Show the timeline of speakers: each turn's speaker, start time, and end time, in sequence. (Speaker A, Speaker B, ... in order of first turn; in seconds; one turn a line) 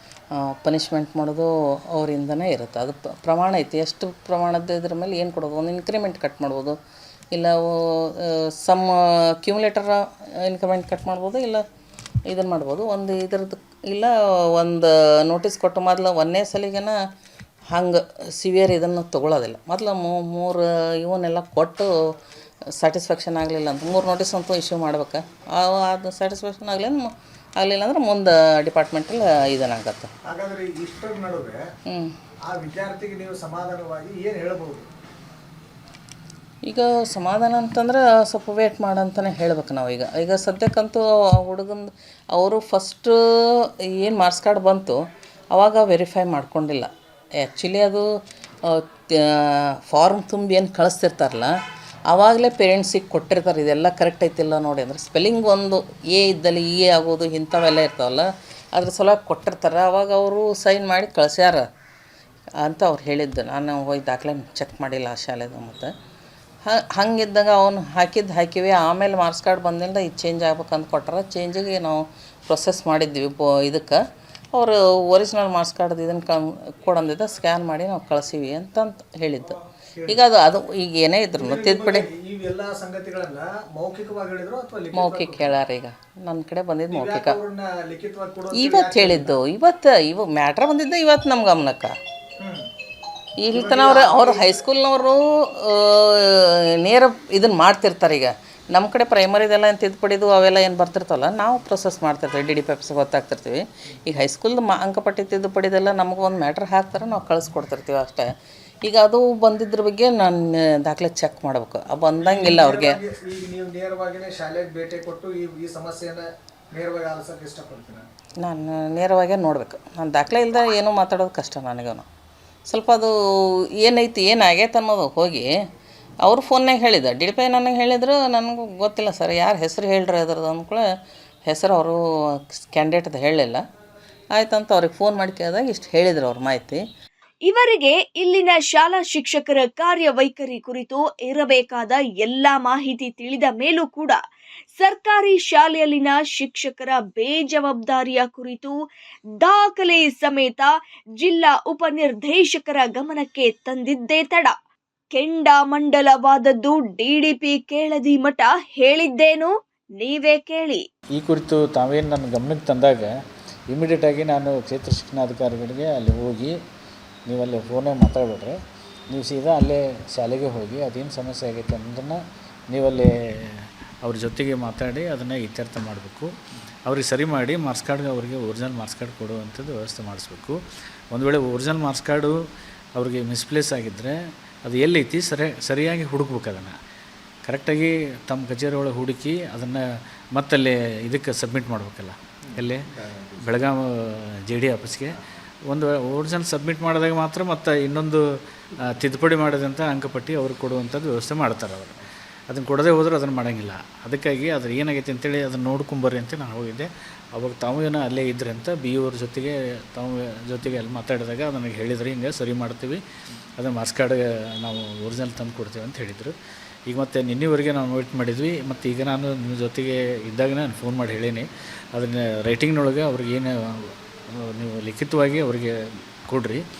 Speaker A: 0.4-6.8
Speaker A: 7.3-11.6
Speaker A: 12.3-17.0
Speaker A: 17.7-21.9
Speaker A: 22.8-30.1
Speaker B: 30.3-31.6
Speaker B: 32.5-34.9
Speaker A: 36.7-43.1
Speaker A: 44.0-45.0
Speaker A: 45.5-46.9
Speaker A: 47.4-48.1
Speaker A: 48.7-51.5
Speaker A: 52.1-61.6
Speaker A: 62.6-65.9
Speaker A: 66.7-74.0
Speaker A: 74.5-79.6
Speaker A: 80.1-82.0
Speaker B: 81.4-85.1
Speaker A: 85.0-87.4
Speaker B: 86.9-89.3
Speaker A: 88.6-91.9
Speaker A: 93.5-108.3
Speaker B: 93.5-94.5
Speaker A: 108.9-113.0
Speaker B: 112.2-118.0
Speaker A: 118.4-122.0
Speaker A: 122.7-123.1
Speaker A: 123.8-125.5
Speaker A: 126.2-130.8
Speaker A: 131.5-132.0
Speaker A: 132.6-133.6
Speaker A: 134.4-136.8
Speaker C: 137.5-144.2
Speaker C: 144.8-148.8
Speaker C: 149.4-150.7
Speaker C: 151.2-154.5
Speaker C: 155.2-160.8
Speaker D: 161.2-163.1
Speaker D: 163.7-166.5
Speaker D: 167.3-168.6
Speaker D: 169.1-172.2
Speaker D: 172.7-176.3
Speaker D: 176.9-180.6
Speaker D: 181.1-182.3
Speaker D: 183.0-184.1
Speaker D: 184.7-186.8
Speaker D: 187.5-189.8
Speaker D: 190.4-192.8
Speaker B: 192.4-193.4
Speaker D: 193.4-195.2
Speaker D: 195.7-198.2
Speaker D: 198.9-213.0
Speaker D: 213.6-216.3
Speaker D: 216.9-223.5
Speaker D: 224.3-225.7
Speaker D: 226.3-226.6